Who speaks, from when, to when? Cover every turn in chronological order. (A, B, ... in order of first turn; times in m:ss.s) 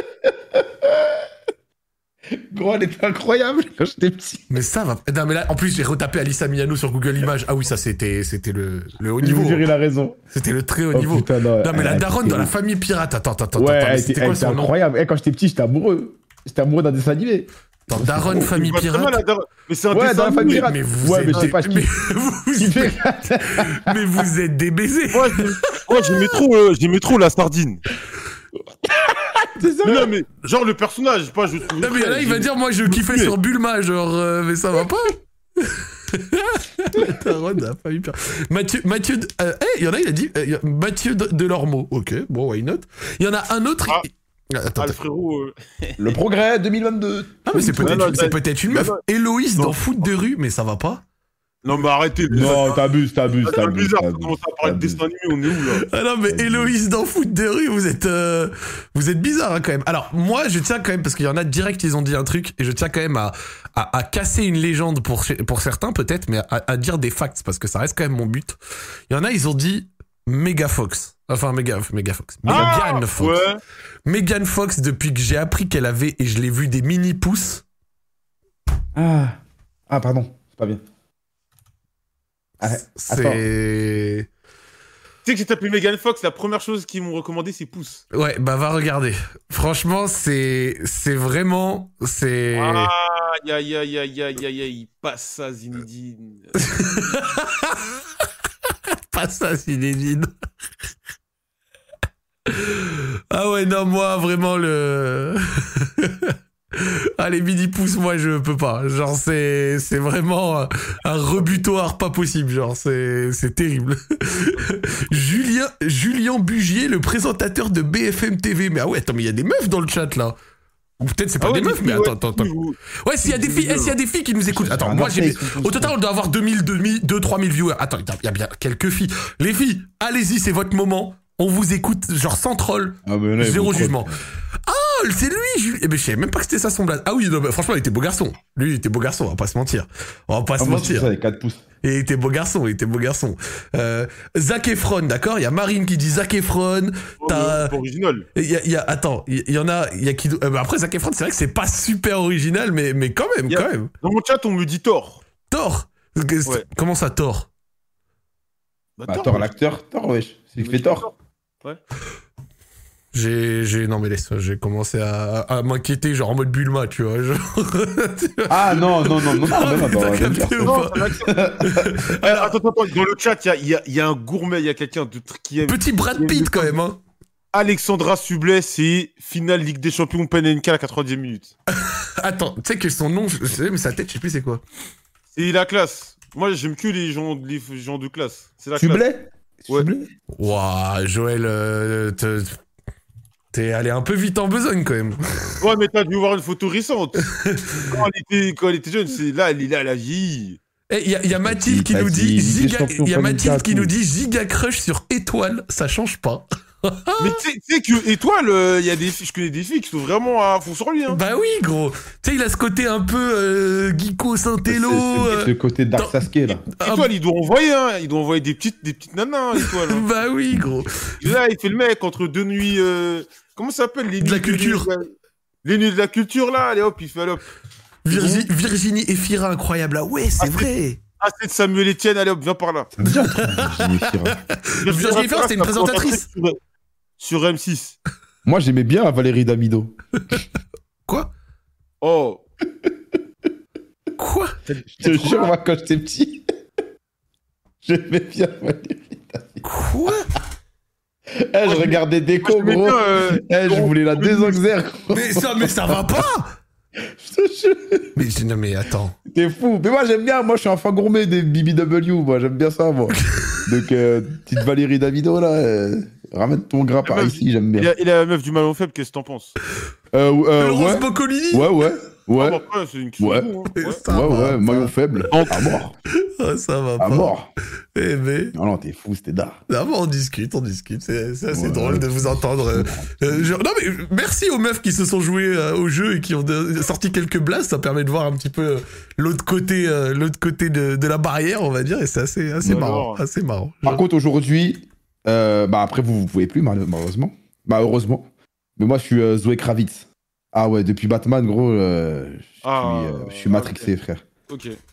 0:00.2-0:01.2 A
0:02.5-0:04.6 A
0:04.5-0:09.6 B
0:09.2-0:10.2 A
0:10.3-0:14.7 B
0:10.9-0:12.5 A
0:13.6-0:18.5 A
0:17.9-0:19.2 B
0:18.5-0:20.7 C
0:19.9-0:21.9 A
0:20.5-0:26.1 B
0:22.6-0:23.9 A
0:25.1-0:27.8 C
0:28.8-0:30.1 A
0:29.8-0:33.3 C
0:31.8-0:45.0 B
0:44.8-0:46.2 C
0:46.0-0:48.2 A
0:47.5-0:51.0 B
0:47.8-0:49.0 C
0:51.6-0:52.8 C
0:52.3-0:55.0 A
0:53.4-0:55.8 C
0:55.9-1:08.6 B
0:56.3-0:56.7 A
1:09.1-1:13.4 B
1:12.4-1:12.8 A
1:12.4-1:13.6 C
1:14.0-1:17.6 B
1:18.9-1:20.8 A
1:22.6-1:23.4 A
1:22.6-1:24.3 B
1:25.2-1:28.0 C
1:28.1-1:32.9 B
1:32.5-1:36.5 C
1:36.6-1:37.8 B
1:39.1-1:40.3 B
1:42.5-2:00.4 B
1:51.4-1:51.6 C
2:01.0-2:02.5 B
2:01.4-2:04.0 C
2:03.0-2:14.1 B
2:04.5-2:05.9 A
2:13.0-2:14.2 A
2:14.6-2:21.1 B
2:20.6-2:21.6 A
2:21.8-2:27.7 B
2:27.2-2:28.2 C
2:28.3-2:33.9 B
2:33.5-2:35.2 C
2:35.5-2:37.5 B
2:39.0-2:39.5 C
2:39.1-2:41.0 A
2:40.6-2:41.8 C
2:43.1-2:51.0 B
2:48.5-2:51.9 A
2:50.6-2:51.4 C
2:51.6-2:52.5 B
2:52.2-2:56.7 C
2:55.7-2:57.0 B
2:57.5-3:01.5 C
3:01.8-3:04.6 B
3:05.3-3:09.0 C
3:08.8-3:10.1 A
3:10.3-3:12.6 B
3:13.5-3:15.6 B
3:15.6-3:17.2 C
3:17.4-3:17.9 B
3:17.8-3:20.6 C
3:20.9-3:27.3 B
3:21.3-3:23.9 A
3:27.2-3:31.2 C
3:31.1-3:36.2 B
3:34.7-3:36.6 A
3:36.7-3:37.1 B
3:36.8-3:40.0 C
3:39.6-3:41.2 B
3:41.2-3:45.1 C
3:44.2-3:44.9 B
3:45.6-3:47.4 C
3:48.0-3:51.0 B
3:48.1-3:48.5 C
3:50.4-3:52.9 C
3:52.9-3:54.4 A
3:53.0-3:56.2 B
3:54.8-3:56.6 C
3:57.2-3:58.0 C
3:58.4-4:00.0 A
4:02.0-4:02.4 C
4:04.2-4:04.5 B
4:04.6-4:05.5 C
4:05.0-4:06.4 A
4:07.8-4:09.6 A
4:09.6-4:10.3 B
4:11.4-4:16.2 A
4:11.6-4:14.6 C
4:15.1-4:16.5 B
4:17.1-4:18.1 A
4:18.1-4:19.2 B
4:19.2-4:27.9 A
4:27.0-4:29.5 C
4:30.1-4:32.6 A
4:30.6-4:31.7 B
4:32.4-4:34.0 C
4:33.2-4:33.5 A
4:33.8-4:34.9 B
4:34.0-4:36.0 A
4:35.3-4:35.6 C
4:36.4-4:37.4 B
4:37.0-4:37.5 A
4:37.9-4:38.5 B
4:38.5-4:39.6 A
4:39.7-4:54.0 B
4:41.5-4:43.5 A
4:52.6-4:53.2 C
4:53.8-5:04.2 A
5:02.6-5:03.9 C
5:04.5-5:04.8 C